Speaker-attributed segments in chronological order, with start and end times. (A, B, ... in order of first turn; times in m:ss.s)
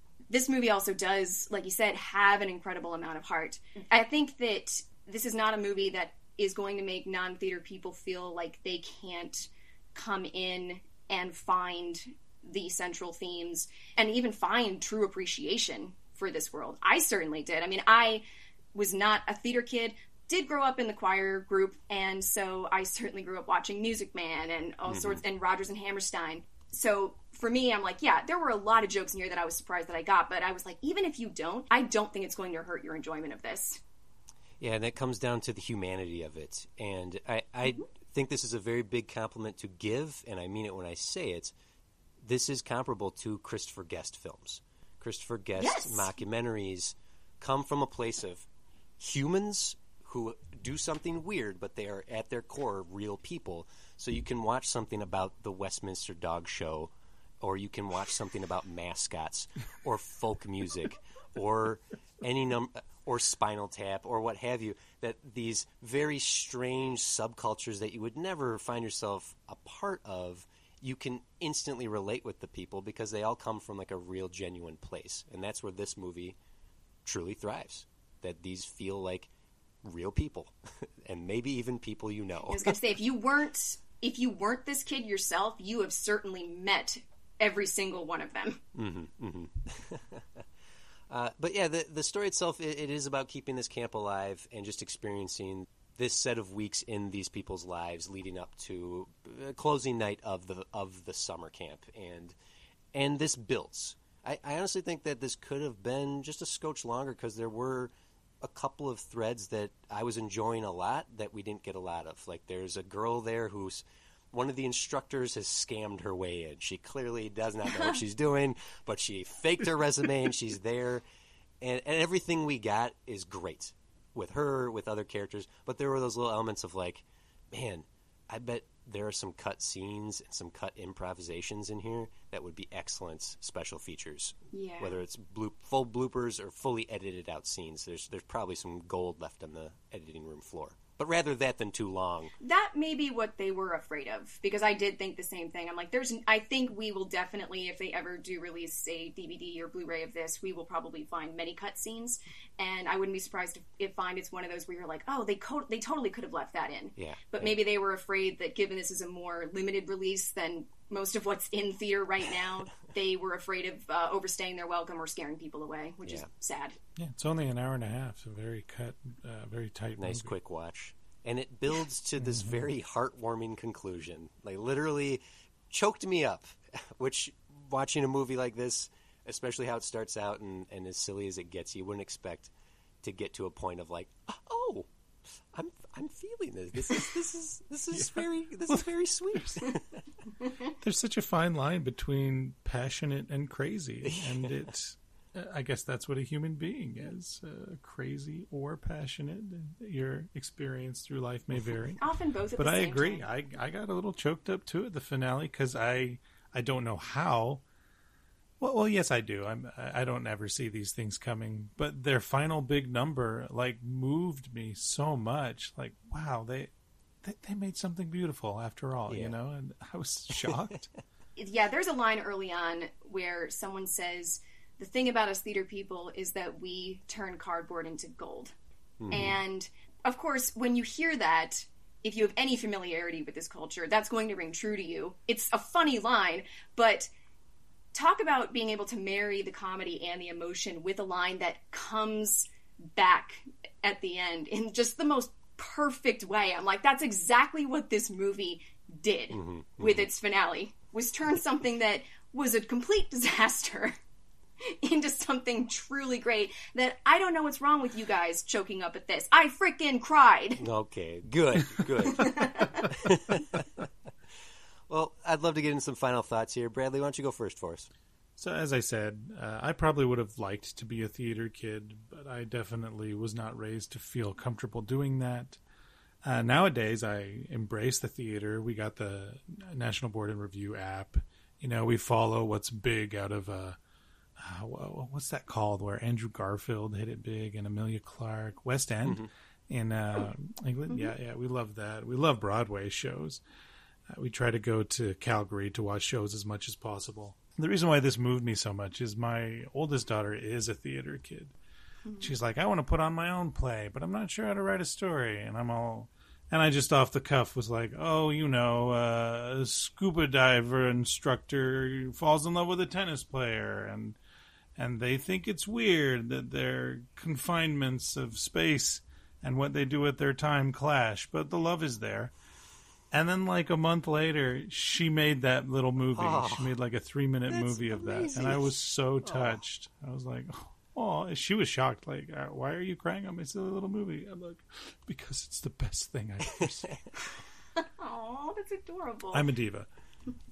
0:00.3-0:18.2 A
0:18.7-0:33.8 A
0:24.9-0:25.2 B
0:34.6-0:41.5 B
0:42.2-0:48.4 B
0:45.6-0:46.1 A
0:49.0-1:16.4 B
1:17.0-1:19.3 B
1:19.8-1:22.8 B
1:22.5-1:28.6 A
1:28.7-1:30.4 B
1:31.1-1:42.3 B
1:42.9-1:47.9 B
1:48.4-2:01.0 B
2:01.6-2:22.3 B
2:14.5-2:15.0 A
2:22.4-2:46.8 A
2:37.0-2:37.5 B
2:47.0-2:50.3 C
2:50.0-3:02.5 B
2:52.2-2:52.6 C
3:03.0-3:04.9 B
3:05.5-3:10.0 B
3:07.9-3:08.8 C
3:09.4-3:09.6 C
3:10.8-3:22.0 C
3:14.0-3:14.7 B
3:22.0-3:23.2 A
3:22.6-3:27.6 C
3:28.6-3:36.7 C
3:37.2-3:40.9 C
3:39.1-3:39.4 B
3:41.4-3:48.5 A
3:49.0-3:49.4 B
3:49.1-3:57.1 A
3:57.9-4:13.9 A
4:09.3-4:10.1 B
4:14.6-4:20.6 A
4:20.6-4:23.9 B
4:22.1-4:22.9 A
4:24.9-4:27.9 B
4:28.4-4:35.6 C
4:36.2-4:43.8 C
4:44.4-4:53.4 C
4:54.1-5:01.5 C
5:02.0-5:02.3 A
5:02.2-5:14.2 C
5:14.8-5:22.3 C
5:23.1-5:37.1 C
5:26.1-5:26.7 B
5:27.5-5:28.7 B
5:29.2-5:29.6 B
5:37.8-5:39.5 A
5:39.3-5:39.9 C